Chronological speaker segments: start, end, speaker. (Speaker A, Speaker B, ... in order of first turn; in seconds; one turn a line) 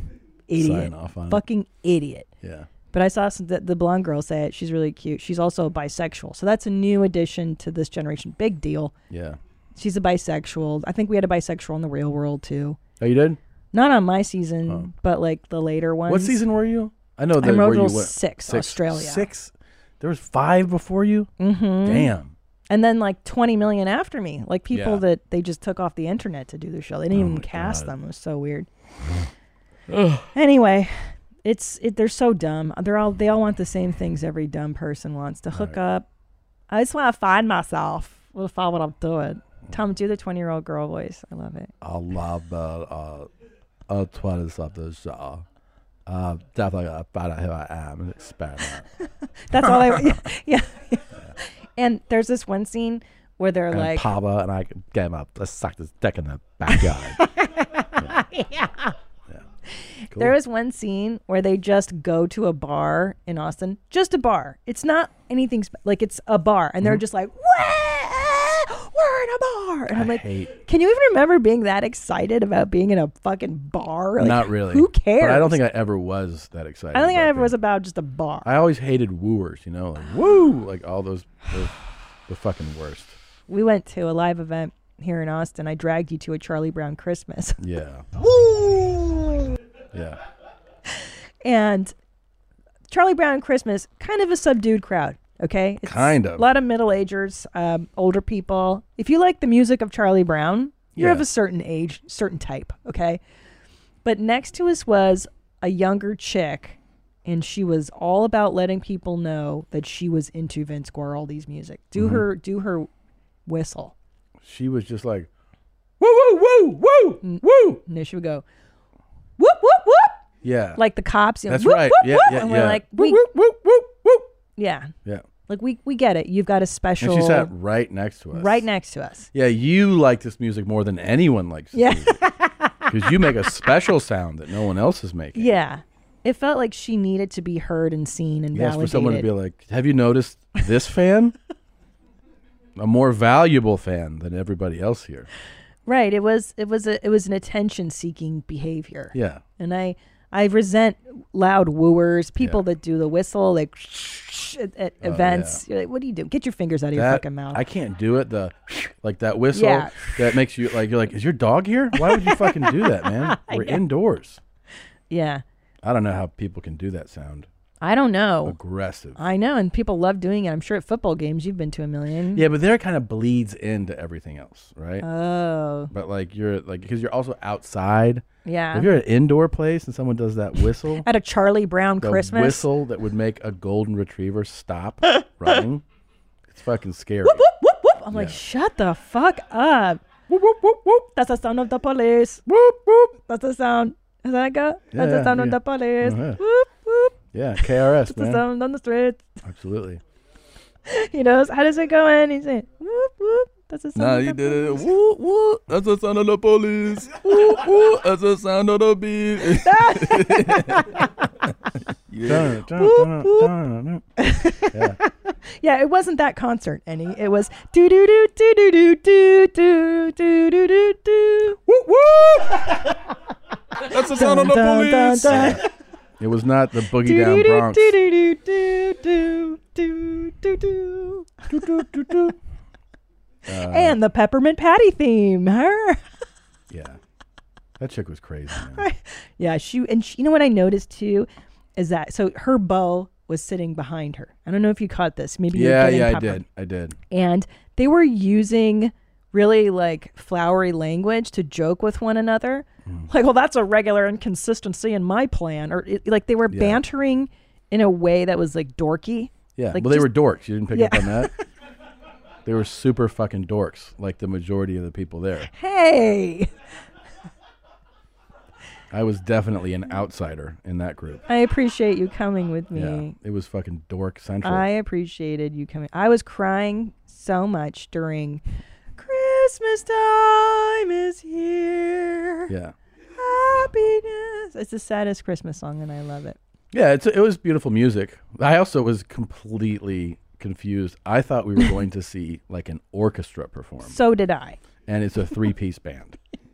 Speaker A: 0.5-2.3
Speaker B: 0.6-1.4
Speaker B: 2.4-2.7
Speaker A: 2.9-8.9
Speaker B: 9.1-9.4
Speaker A: 9.7-12.8
Speaker B: 13.0-13.4
Speaker A: 13.7-16.4
Speaker B: 16.1-21.3
Speaker A: 17.4-19.3
Speaker A: 21.4-22.1
Speaker B: 21.8-22.3
Speaker A: 22.7-28.7
Speaker B: 24.7-25.0
Speaker B: 27.1-27.9
Speaker A: 30.3-36.1
Speaker B: 35.5-35.8
Speaker A: 36.7-41.7
Speaker B: 41.8-43.3
Speaker B: 43.9-45.4
Speaker B: 46.0-48.9
Speaker A: 49.5-54.1
Speaker B: 49.6-50.2
Speaker B: 53.7-57.2
Speaker A: 57.2-58.7
Speaker B: 58.0-58.2
Speaker A: 60.0-75.6
Speaker B: 69.9-70.5
Speaker B: 74.2-77.5
Speaker A: 76.9-78.5
Speaker B: 78.4-81.7
Speaker B: 82.3-83.1
Speaker A: 83.5-87.6
Speaker B: 87.6-88.1
Speaker A: 88.2-89.5
Speaker B: 89.9-90.2
Speaker A: 90.9-91.9
Speaker A: 92.9-103.2
Speaker B: 95.8-96.5
Speaker B: 100.9-101.2
Speaker A: 104.0-112.9
Speaker B: 112.0-112.2
Speaker A: 113.5-113.9
Speaker B: 114.4-115.3
Speaker B: 116.0-117.5
Speaker A: 117.2-118.4
Speaker A: 119.4-120.2
Speaker B: 120.4-120.8
Speaker A: 120.8-123.2
Speaker B: 121.5-124.2
Speaker A: 124.6-124.9
Speaker A: 125.5-127.5
Speaker B: 127.0-128.7
Speaker A: 128.3-129.3
Speaker B: 129.3-132.2
Speaker A: 131.7-132.8
Speaker B: 132.9-135.6
Speaker A: 135.3-139.3
Speaker B: 138.5-141.3
Speaker B: 142.8-145.3
Speaker A: 145.8-157.6
Speaker B: 149.1-149.4
Speaker B: 155.0-155.6
Speaker B: 156.9-164.4
Speaker A: 159.5-160.2
Speaker A: 162.0-163.8
Speaker A: 165.1-165.4
Speaker B: 165.8-167.5
Speaker A: 167.8-168.6
Speaker B: 168.4-169.2
Speaker A: 169.2-172.4
Speaker B: 172.3-175.1
Speaker A: 175.0-175.9
Speaker B: 175.9-181.1
Speaker A: 178.4-178.9
Speaker A: 181.0-182.7
Speaker B: 182.0-185.8
Speaker B: 186.5-187.4
Speaker A: 187.2-190.0
Speaker B: 188.1-188.4
Speaker B: 190.3-191.1
Speaker A: 191.1-192.4
Speaker B: 192.5-193.2
Speaker A: 193.3-199.4
Speaker B: 194.9-196.4
Speaker B: 197.3-198.4
Speaker B: 199.4-200.0
Speaker A: 200.9-204.9
Speaker C: 204.0-209.4
Speaker B: 207.3-207.9
Speaker A: 209.4-211.1
Speaker B: 210.2-210.8
Speaker C: 212.1-212.5
Speaker B: 212.2-214.0
Speaker A: 212.8-213.5
Speaker A: 214.2-221.6
Speaker B: 214.7-215.0
Speaker C: 223.9-225.2
Speaker A: 224.0-225.6
Speaker B: 225.2-225.6
Speaker B: 226.2-227.9
Speaker A: 227.0-231.4
Speaker B: 231.5-232.3
Speaker B: 233.4-234.0
Speaker A: 233.7-236.0
Speaker B: 236.7-237.0
Speaker B: 237.8-238.8
Speaker A: 238.5-246.4
Speaker B: 245.5-247.0
Speaker A: 247.1-260.1
Speaker B: 256.5-256.8
Speaker B: 259.6-261.3
Speaker A: 260.7-261.3
Speaker B: 262.4-265.5
Speaker A: 265.5-266.5
Speaker B: 268.9-271.2
Speaker A: 271.3-273.1
Speaker B: 272.7-274.6
Speaker A: 274.4-278.4
Speaker A: 278.9-282.5
Speaker B: 282.5-282.7
Speaker A: 283.1-286.4
Speaker B: 286.7-294.0
Speaker A: 293.8-294.6
Speaker B: 294.9-296.2